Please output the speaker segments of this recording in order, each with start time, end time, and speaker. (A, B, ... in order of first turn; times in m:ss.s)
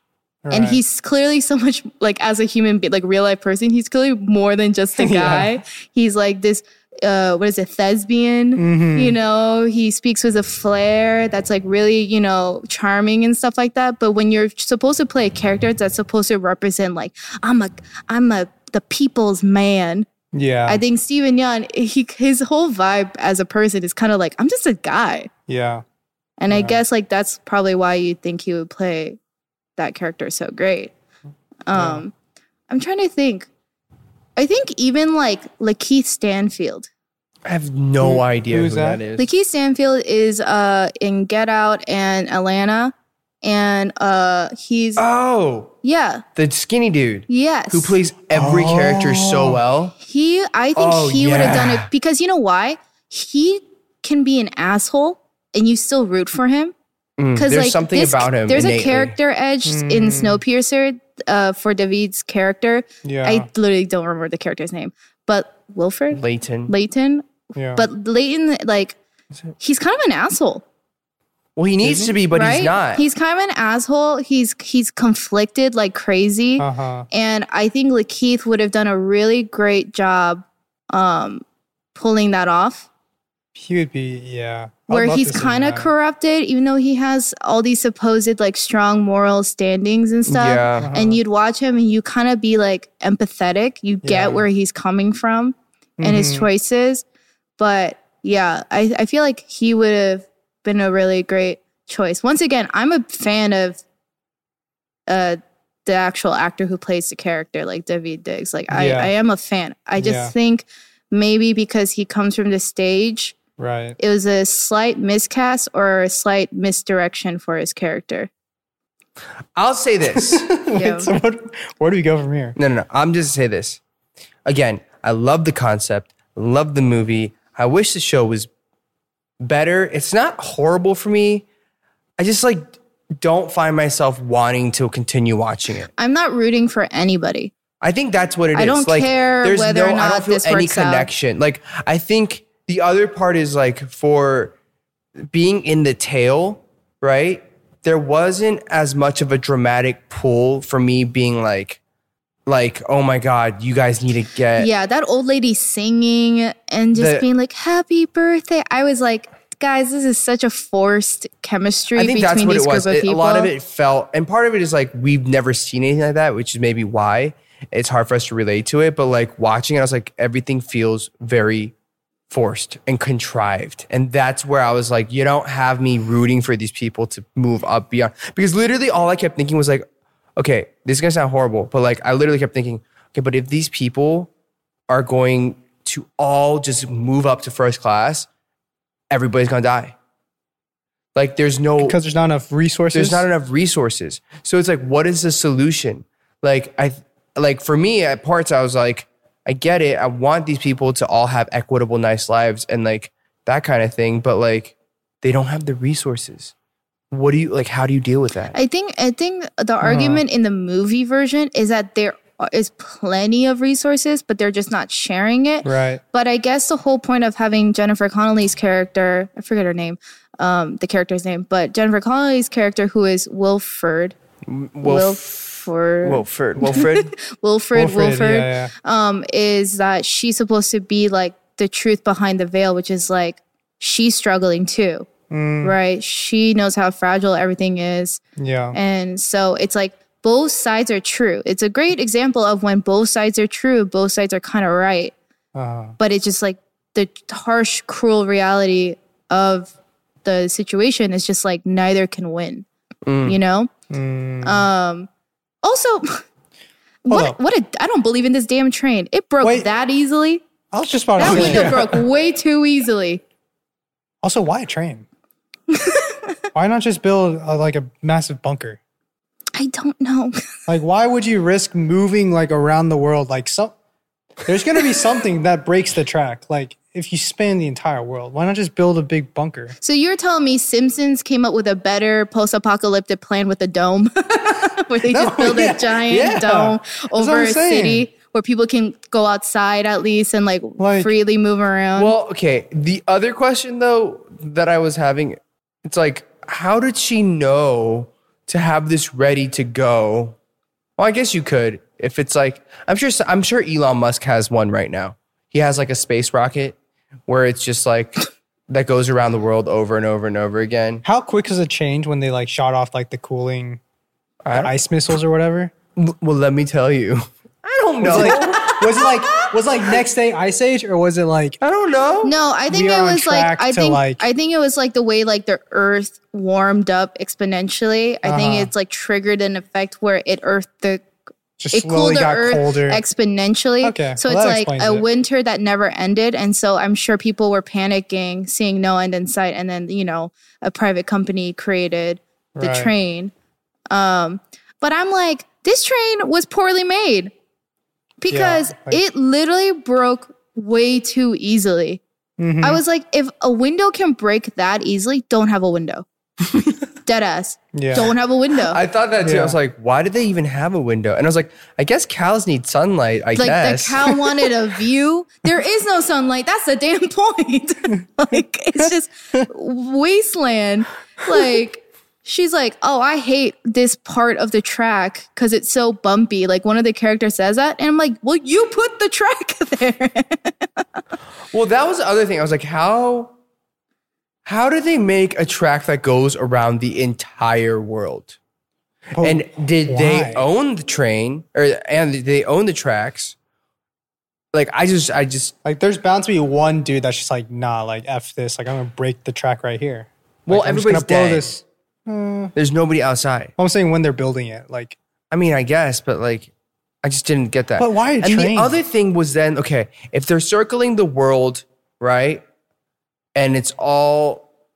0:00.4-0:00.8 A
0:00.5-0:20.1 B
0:05.0-0:05.6 A
0:08.6-0:09.2 A
0:20.3-0:20.8 A
0:20.7-0:25.3 B
0:25.5-0:25.8 A
0:26.4-0:29.2 B
0:26.5-0:26.8 A
0:29.8-0:30.9 B
0:31.6-0:32.1 B
0:31.7-0:32.0 A
0:32.7-0:33.5 B
0:34.4-0:36.9 B
0:37.4-0:39.3 C
0:38.0-0:39.0 A
0:39.2-0:42.9 B
0:43.4-0:45.0 B
0:45.0-0:45.7 C
0:45.8-0:46.2 B
0:46.4-0:49.9 C
0:47.3-0:47.9 B
0:48.3-0:49.6 A
0:50.0-0:56.7 B
0:50.8-0:51.9 C
0:57.2-0:59.1 C
0:57.4-1:09.0 B
0:59.6-1:00.4 A
1:03.0-1:03.5 A
1:06.1-1:06.7 C
1:07.5-1:07.9 A
1:09.6-1:10.6 B
1:11.6-1:13.0 C
1:11.8-1:12.1 A
1:12.3-1:21.4 B
1:16.6-1:17.1 A
1:21.9-1:22.9 B
1:23.5-1:25.9 A
1:24.9-1:37.0 B
1:30.3-1:30.9 C
1:30.8-1:31.2 A
1:34.0-1:34.4 A
1:36.0-1:36.5 A
1:37.6-1:43.8 B
1:45.1-1:53.4 B
1:48.7-1:49.1 A
1:50.0-1:50.3 A
1:53.6-1:54.0 A
1:54.0-1:58.3 B
1:59.6-2:00.4 C
2:00.1-2:02.5 A
2:00.7-2:01.1 B
2:02.6-2:03.8 C
2:04.4-2:08.5 C
2:09.4-2:11.4 C
2:12.2-2:15.9 C
2:16.0-2:17.5 B
2:17.8-2:24.5 C
2:18.5-2:21.1 B
2:25.3-2:31.8 C
2:32.4-2:34.7 C
2:34.6-2:43.5 B
2:36.9-2:37.2 C
2:41.9-2:51.7 C
2:52.3-2:59.8 C
3:00.4-3:04.3 C
3:04.9-3:08.3 C
3:09.1-3:09.9 C
3:11.1-3:12.0 C
3:11.8-3:13.2 A
3:12.9-3:26.5 C
3:27.1-3:28.6 C
3:28.5-3:44.1 B
3:29.8-3:30.2 A
3:35.6-3:36.0 A
3:44.4-3:47.1 C
3:44.8-3:55.1 B
3:47.7-3:48.7 A
3:55.3-3:55.8 A
3:55.6-3:58.2 B
3:58.4-3:58.8 A
3:58.7-4:05.1 B
4:05.5-4:06.0 A
4:06.0-4:09.7 B
4:10.2-4:12.6 B
4:13.0-4:13.4 C
4:13.2-4:13.7 B
4:13.9-4:14.7 A
4:14.4-4:15.1 B
4:15.6-4:16.2 B
4:17.0-4:20.4 B
4:17.1-4:17.4 A
4:19.4-4:19.7 A
4:20.7-4:22.0 A
4:21.2-4:23.2 B
4:21.3-4:21.7 C
4:24.2-4:25.0 A
4:25.7-4:26.1 B
4:26.5-4:28.8 A
4:29.5-4:30.4 B
4:30.7-4:33.7 A
4:34.4-4:39.7 A
4:39.8-4:52.1 B
4:45.1-4:48.1 A
4:50.8-4:51.1 A
4:52.0-5:00.4 C
5:01.0-5:06.8 C
5:07.3-5:11.0 C
5:11.0-5:13.8 A
5:14.4-5:14.7 C
5:14.5-5:15.7 A
5:16.0-5:18.6 C
5:18.0-5:21.6 A
5:18.2-5:19.5 B
5:21.6-5:22.3 C
5:22.2-5:31.0 B
5:22.7-5:24.2 A
5:28.2-5:28.7 A
5:31.6-5:33.0 A
5:31.7-5:43.3 B
5:33.8-5:35.0 A
5:42.6-5:42.9 A
5:43.9-5:47.3 B
5:48.2-5:52.0 B
5:48.3-5:49.0 A
5:52.4-5:52.8 A
5:52.6-5:56.0 B
5:57.0-5:58.8 B
5:57.7-5:58.1 A
5:58.7-6:04.2 C
5:59.2-5:59.6 A
6:03.4-6:20.7 B
6:21.5-6:23.3 C
6:24.4-6:28.4 C
6:29.1-6:30.4 A
6:29.2-6:33.3 C
6:34.5-6:35.5 C
6:35.6-6:42.5 A
6:40.5-6:41.5 C
6:42.5-6:43.5 C
6:43.6-6:45.0 A
6:45.3-6:46.5 C
6:47.0-6:52.4 C
6:47.8-6:48.7 A
6:53.3-6:54.4 C